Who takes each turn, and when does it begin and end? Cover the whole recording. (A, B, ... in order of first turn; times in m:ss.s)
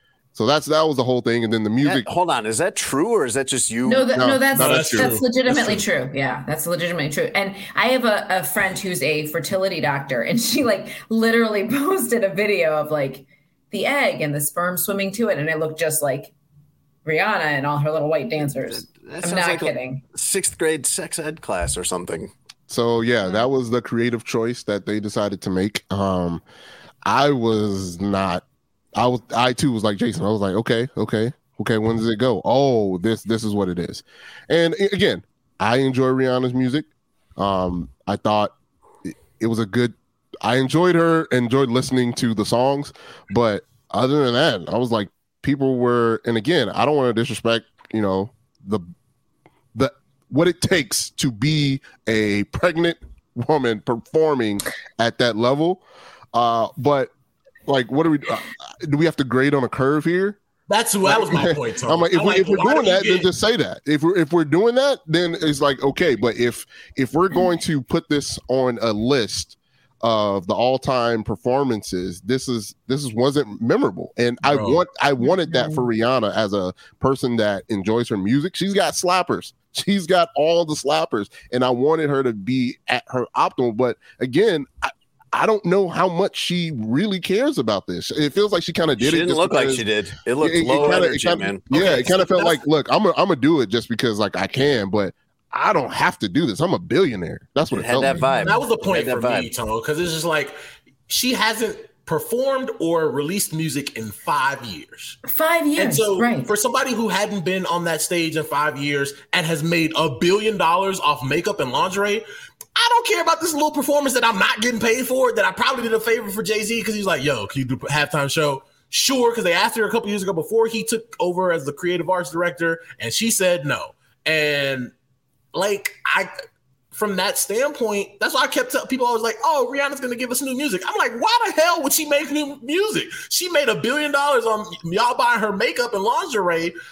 0:00.3-0:02.1 A
0:01.8-0:04.2 B
0:03.8-0:16.3 C
0:04.2-0:05.2 A
0:04.6-0:05.8 D
0:17.0-0:20.0 C
0:18.7-0:22.3 B
0:22.7-0:26.4 A
0:27.0-0:48.8 A
0:49.7-0:57.1 A
0:57.6-1:00.4 A
1:00.7-1:03.3 D
1:01.0-1:29.8 A
1:14.4-1:14.8 D
1:15.2-1:15.8 C
1:29.0-1:31.8 B
1:30.4-1:38.2 A
1:30.7-1:31.1 D
1:31.7-1:32.6 D
1:37.7-1:39.5 B
1:38.1-1:38.6 C
1:38.4-1:40.5 D
1:41.1-1:45.2 D
1:45.2-1:46.5 C
1:45.8-2:04.9 D
2:05.5-2:06.3 D
2:06.9-2:16.7 D